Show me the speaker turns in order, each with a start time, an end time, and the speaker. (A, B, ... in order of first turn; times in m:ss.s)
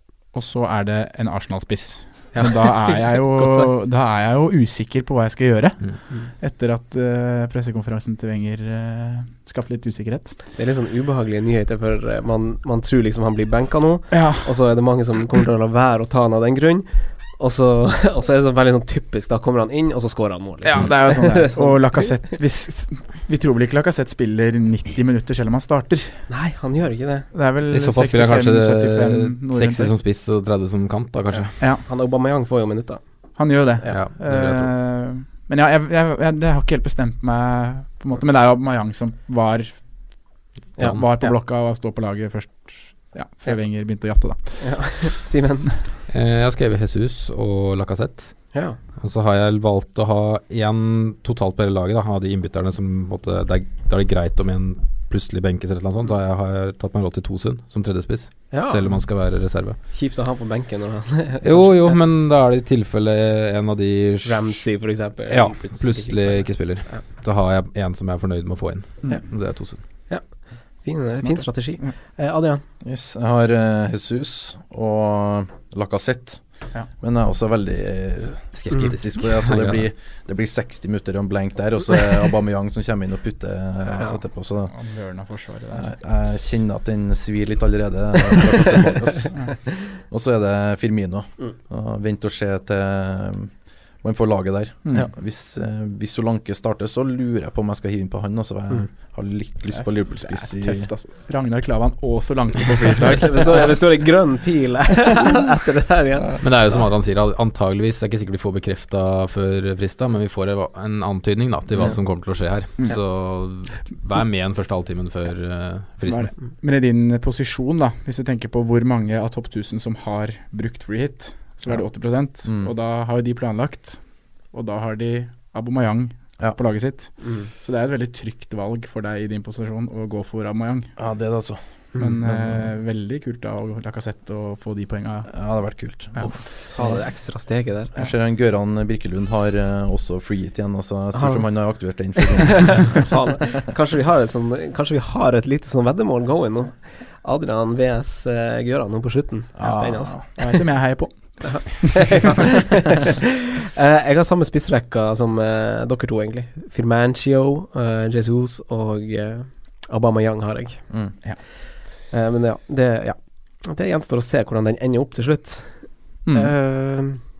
0:00.3-0:10.4 A
0:02.3-0:03.7 B
0:10.6-0:22.2 B
0:14.1-0:14.5 A
0:20.6-0:26.3 A
0:26.3-0:27.3 B
0:27.3-0:30.0 A
0:27.7-0:31.6 C
0:31.3-0:33.0 B
0:31.6-0:31.8 A
0:33.4-0:39.8 A
0:33.9-0:34.7 C
0:40.8-0:41.4 B
0:40.8-0:45.1 A
0:44.6-0:45.7 B
0:46.1-0:59.8 C
0:58.5-0:58.9 B
0:59.9-1:02.0 B
1:01.4-1:04.6 C
1:04.2-1:07.0 B
1:05.3-1:09.8 C
1:10.1-1:12.6 B
1:11.2-1:12.0 A
1:12.8-1:24.7 D
1:18.5-1:19.9 C
1:24.7-1:25.9 A
1:25.7-1:40.9 D
1:34.9-1:35.1 A
1:39.7-1:43.8 A
1:43.1-1:46.3 B
1:46.4-1:56.3 C
1:56.1-2:10.9 A
2:02.4-2:02.7 D
2:07.2-2:07.5 B
2:11.0-2:11.6 D
2:12.0-2:15.4 A
2:12.3-2:12.6 D
2:15.3-2:16.4 D
2:16.1-2:16.5 A
2:16.2-2:17.9 B
2:18.0-2:23.1 D
2:21.1-2:30.4 B
2:29.6-2:30.2 D
2:30.2-2:32.1 A
2:31.4-2:41.2 B
2:42.1-2:47.2 B
2:46.2-2:46.5 A